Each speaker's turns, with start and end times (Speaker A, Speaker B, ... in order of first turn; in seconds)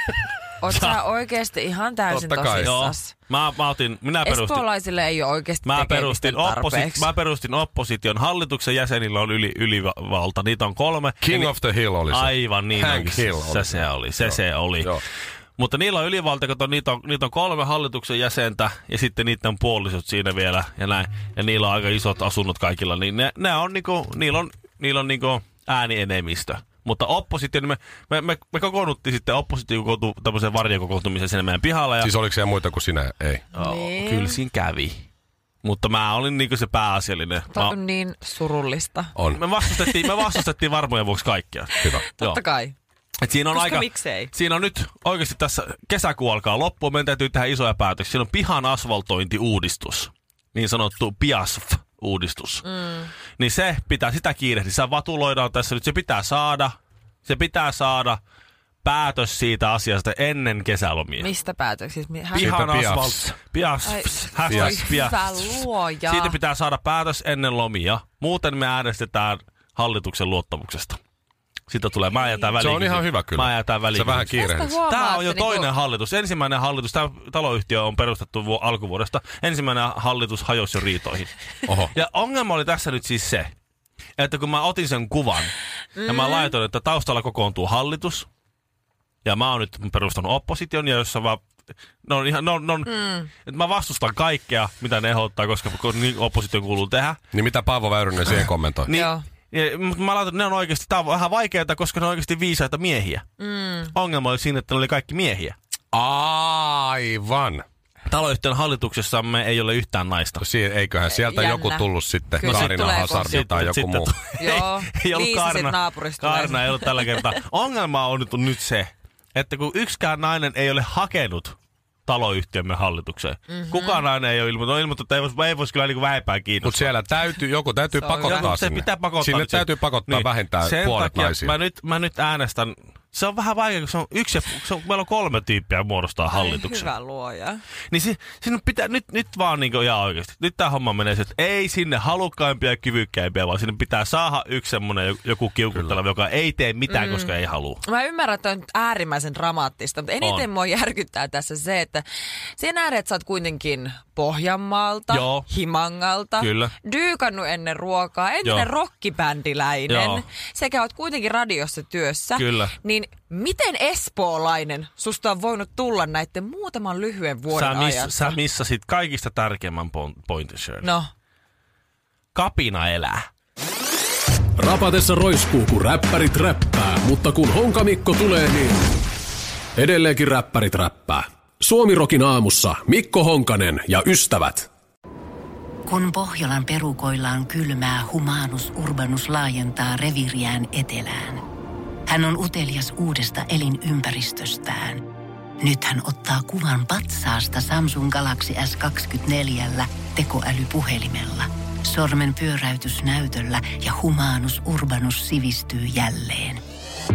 Speaker A: 0.6-3.1, 4.2-7.1, 33.5-34.4, 37.5-39.1, 41.8-42.7, 43.5-44.3, 52.6-53.1, 61.2-62.5, 63.8-66.4, 74.4-75.7, 86.0-86.5, 92.9-93.3, 98.9-99.2, 103.4-103.9, 111.1-113.5, 114.4-117.3, 123.5-124.0, 127.9-128.5, 136.3-137.6, 146.9-147.3, 147.8-152.0, 152.6-168.4, 170.8-171.1
Speaker B: 0.7-1.0, 2.6-4.7, 5.6-11.5, 12.1-14.9, 15.6-32.1, 33.5-35.0, 35.6-37.7, 39.3-42.4, 43.2-52.6, 53.4-58.2, 58.8-61.3, 62.3-71.0, 71.7-81.3, 81.9-83.5, 84.2-85.5, 86.0-88.3, 89.2-91.4, 92.0-97.2, 98.2-103.2, 103.9-105.5, 108.1-110.4, 112.4-121.5, 122.0-126.9, 128.2-136.9, 137.9-147.8, 150.2-150.4, 155.1-155.4, 156.4-156.7, 159.9-160.2, 162.3-162.7, 167.5-170.9, 172.3-173.3
Speaker C: 2.1-2.8, 11.2-15.0, 32.0-33.4, 39.1-39.4, 62.4-63.2, 64.5-64.8, 72.6-74.8, 81.7-81.9, 97.3-98.9, 105.9-107.6, 110.4-114.1, 126.6-131.6
Speaker D: 174.6-178.8, 179.8-184.7
Speaker E: 185.9-191.4, 192.1-195.0, 195.6-206.6